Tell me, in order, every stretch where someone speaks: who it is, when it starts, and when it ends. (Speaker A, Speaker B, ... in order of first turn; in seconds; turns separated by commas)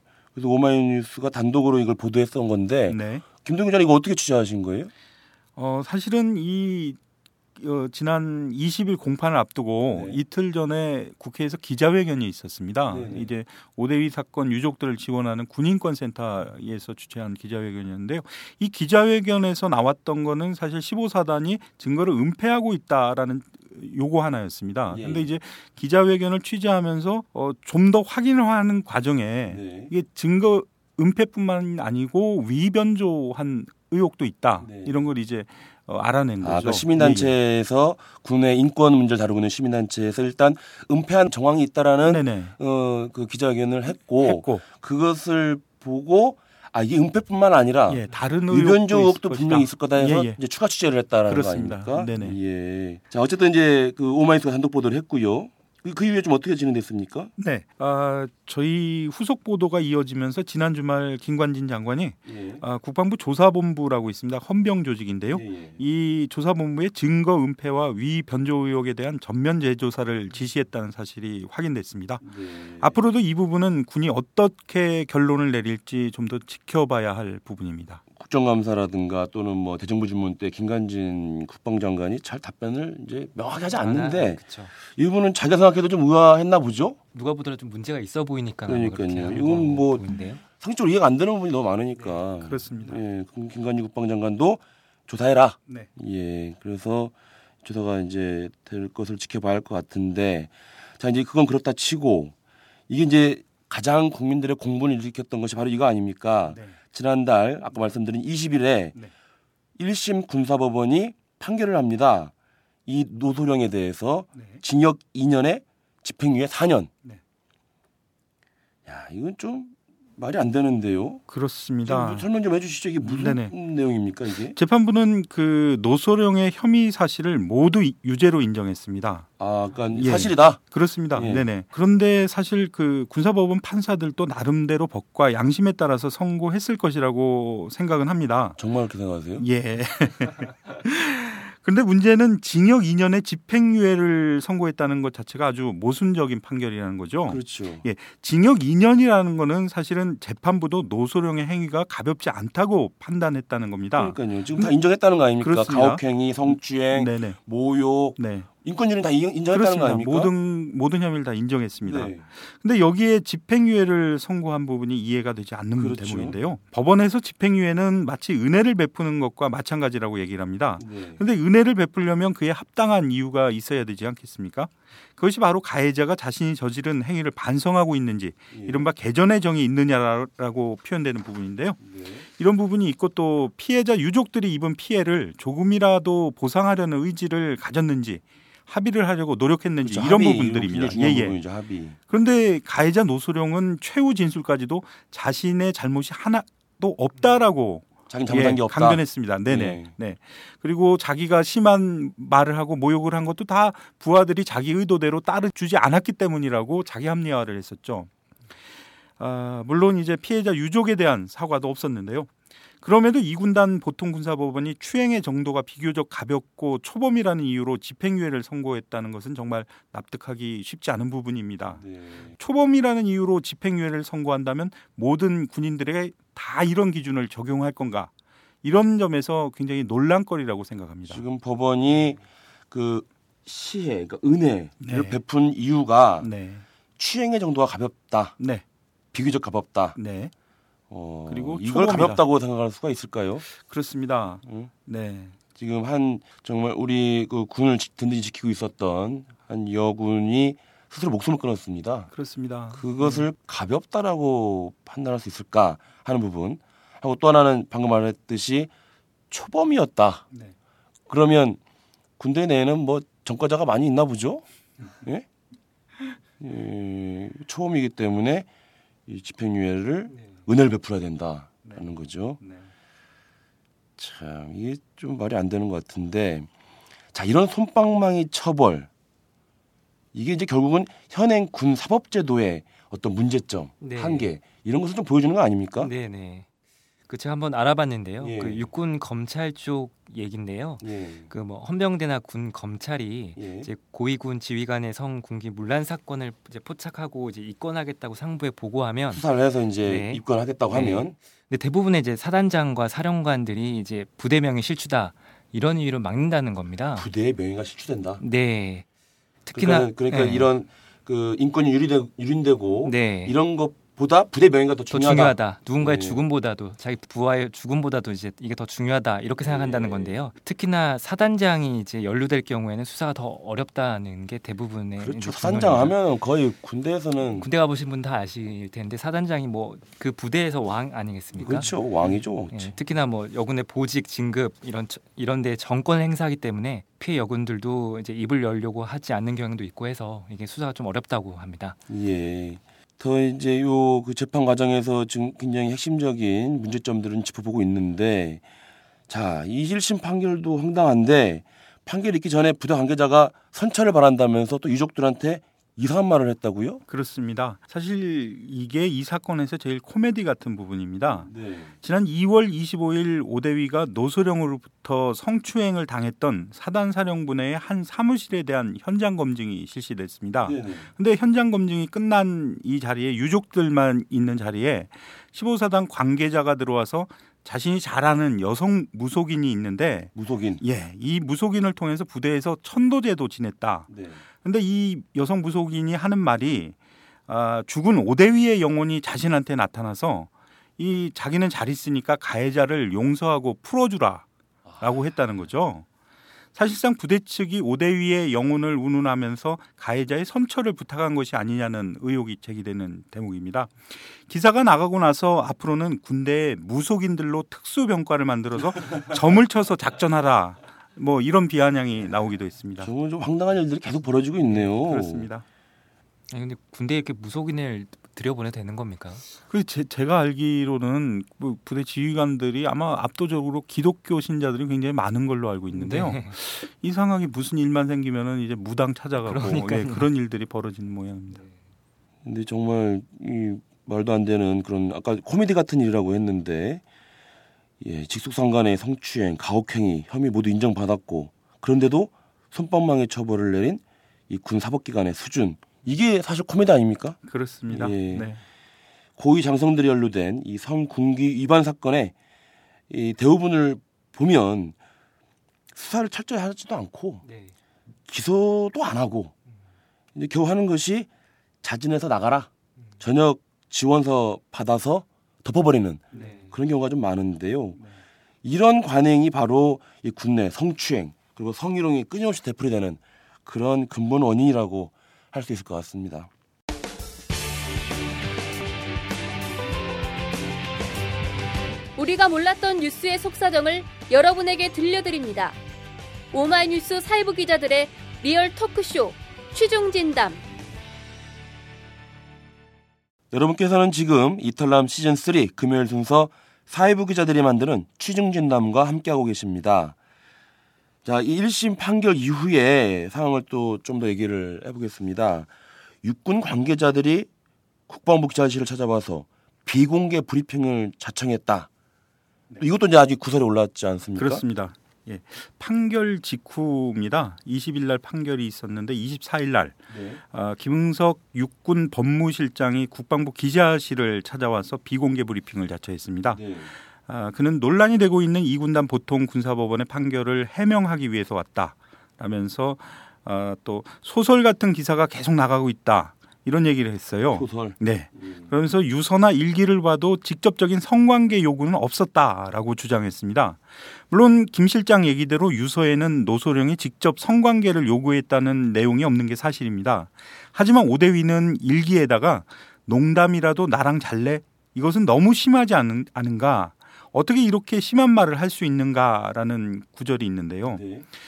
Speaker A: 0.3-4.9, Speaker B: 2.9-3.2, Speaker B: 5.5-7.0, Speaker B: 7.5-37.3, Speaker A: 9.9-10.2, Speaker A: 12.9-13.3, Speaker A: 24.9-25.3, Speaker A: 29.5-29.9, Speaker A: 34.6-34.9, Speaker A: 36.4-57.3, Speaker B: 42.0-42.5, Speaker B: 44.2-44.6, Speaker B: 47.9-50.4, Speaker B: 51.3-52.4, Speaker B: 57.4-72.2, Speaker A: 62.2-62.6, Speaker A: 65.3-65.8, Speaker A: 72.2-73.0, Speaker B: 72.8-78.0, Speaker A: 78.2-87.0, Speaker C: 83.7-84.7, Speaker C: 87.1-90.4, Speaker A: 88.7-102.3, Speaker B: 92.4-93.0, Speaker A: 102.9-109.0, Speaker B: 106.5-106.8, Speaker A: 109.8-112.3, Speaker A: 112.9-116.9, Speaker B: 114.4-114.6, Speaker A: 118.9-121.2, Speaker B: 121.3-122.3, Speaker A: 121.8-124.6, Speaker B: 123.0-123.5, Speaker B: 124.5-129.3, Speaker A: 129.4-130.6, Speaker B: 129.9-138.6, Speaker A: 131.1-131.5, Speaker A: 138.6-139.4, Speaker B: 139.4-154.8, Speaker A: 147.3-147.8, Speaker A: 154.0-160.3, Speaker B: 155.4-157.4, Speaker B: 158.2-158.5, Speaker B: 159.5-181.8, Speaker A: 161.8-162.2, Speaker A: 165.8-166.4, Speaker A: 170.8-171.2, Speaker A: 178.5-178.8, Speaker A: 181.8-182.2, Speaker B: 182.4-191.4, Speaker A: 189.8-192.0, Speaker B: 192.1-208.1, Speaker A: 198.1-199.9, Speaker B: 209.2-212.3, Speaker B: 212.8-221.8, Speaker A: 221.8-222.3, Speaker B: 222.4-228.1, Speaker B: 228.6-231.2, Speaker A: 231.1-232.2, Speaker A: 232.7-236.3, Speaker B: 234.8-235.2, Speaker B: 236.2-236.6, Speaker A: 237.0-238.4, Speaker A: 239.1-240.0, Speaker B: 240.0-240.3, Speaker A: 240.9-243.5, Speaker B: 241.3-242.2, Speaker B: 243.5-245.3, Speaker A: 244.4-244.7, Speaker A: 245.5-252.1, Speaker B: 252.1-253.2, Speaker A: 252.7-258.7, Speaker A: 259.3-260.3, Speaker A: 261.1-261.6, Speaker A: 262.2-265.2, Speaker A: 266.4-268.5, Speaker A: 269.1-272.4, Speaker B: 272.4-272.7, Speaker A: 274.0-276.5, Speaker A: 277.1-278.9, Speaker A: 280.1-285.9, Speaker C: 283.8-284.3, Speaker C: 285.8-286.5, Speaker C: 287.1-299.2, Speaker A: 288.2-288.7, Speaker A: 290.8-291.3, Speaker A: 293.4-293.7, Speaker A: 299.1-301.1, Speaker C: 299.8-307.1, Speaker A: 306.9-308.2, Speaker C: 308.2-308.8, Speaker C: 309.5-310.5, Speaker A: 309.5-316.2, Speaker C: 312.9-313.3, Speaker C: 314.9-325.9, Speaker A: 319.4-320.2, Speaker A: 325.0-327.5, Speaker C: 327.2-341.8, Speaker A: 331.4-332.7, Speaker A: 341.9-348.4, Speaker A: 349.1-356.8, Speaker B: 356.9-361.3, Speaker A: 361.2-361.7, Speaker B: 361.8-383.9, Speaker A: 370.4-370.9, Speaker A: 380.1-380.6, Speaker A: 383.9-384.2, Speaker B: 384.4-386.8, Speaker B: 387.3-394.2, Speaker B: 394.8-395.8, Speaker B: 396.5-412.9, Speaker A: 412.8-415.3, Speaker B: 414.8-415.4, Speaker C: 416.3-419.2, Speaker B: 419.5-431.4, Speaker C: 425.7-426.3, Speaker C: 429.2-430.1, Speaker A: 432.2-436.8, Speaker A: 437.8-448.3, Speaker B: 447.3-448.4, Speaker A: 449.2-452.1, Speaker A: 452.9-454.8, Speaker A: 455.7-457.2, Speaker C: 457.2-457.5, Speaker A: 458.1-459.3, Speaker A: 460.1-461.1, Speaker A: 461.6-462.5, Speaker A: 463.0-467.8, Speaker C: 466.1-466.5, Speaker A: 468.4-476.3, Speaker D: 482.0-485.6, Speaker D: 486.3-490.4, Speaker A: 493.3-500.0, Speaker A: 501.0-505.5, Speaker A: 506.0-507.3, Speaker A: 507.9-511.7, Speaker A: 512.6-514.4, Speaker B: 514.2-519.8, Speaker A: 519.9-520.2, Speaker B: 520.3-526.4, Speaker A: 526.3-526.7, Speaker B: 527.0-560.8, Speaker A: 537.3-538.5, Speaker A: 560.7-561.0